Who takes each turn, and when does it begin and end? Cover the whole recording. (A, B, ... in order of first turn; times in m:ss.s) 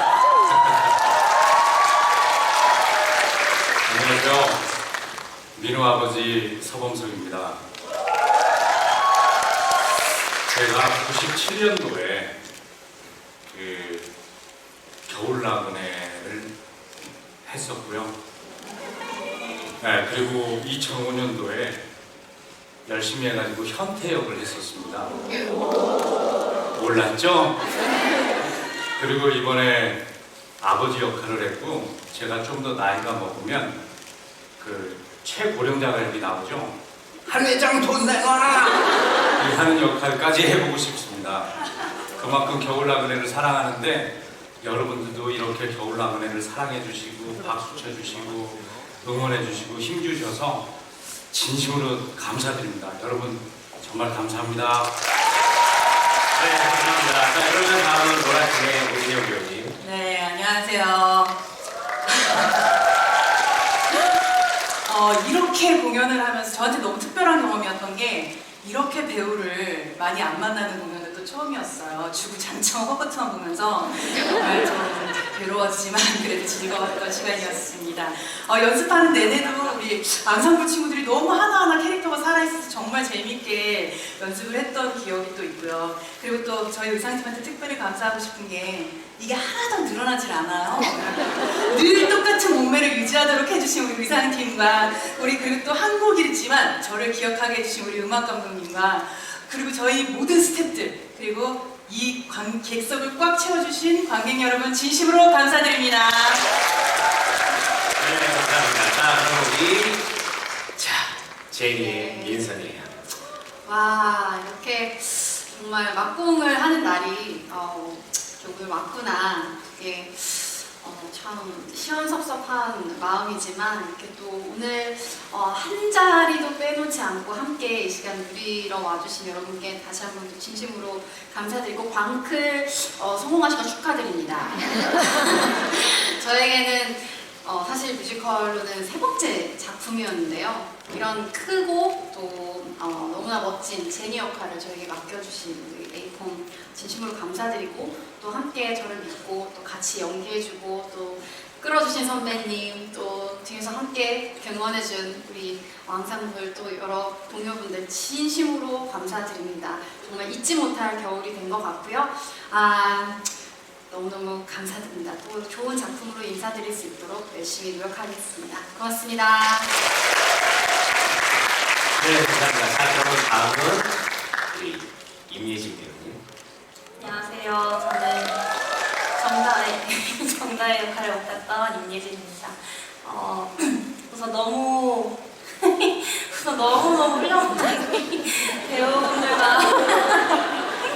0:00.5-0:00.9 A
0:03.8-0:04.6 B
0:05.5-0:07.6 B
0:10.5-0:12.4 B
0:13.5-0:14.1 B
0:15.1-0:16.5 B
0:17.4-0:18.1 B
0:19.8-0:21.8 B
0:22.8-0:25.2 B
0:26.7-0:27.6 B
0:29.0-0:30.0 B
0:30.6-0:33.8 B
0:34.6-0:38.8 B
0:39.4-0:50.7 B
0:51.3-0:54.9 B
0:56.4-0:59.8 A
0:59.8-1:01.4 C
1:02.1-1:02.6 C
1:04.9-1:46.5 C
1:48.0-1:50.0 A
1:50.8-1:53.0 A
1:51.8-1:52.5 D
1:53.6-2:43.4 D
2:43.9-2:49.8 D
2:52.0-2:54.0 A
2:54.5-2:56.2 A
2:57.0-2:58.4 E
2:59.2-3:10.6 E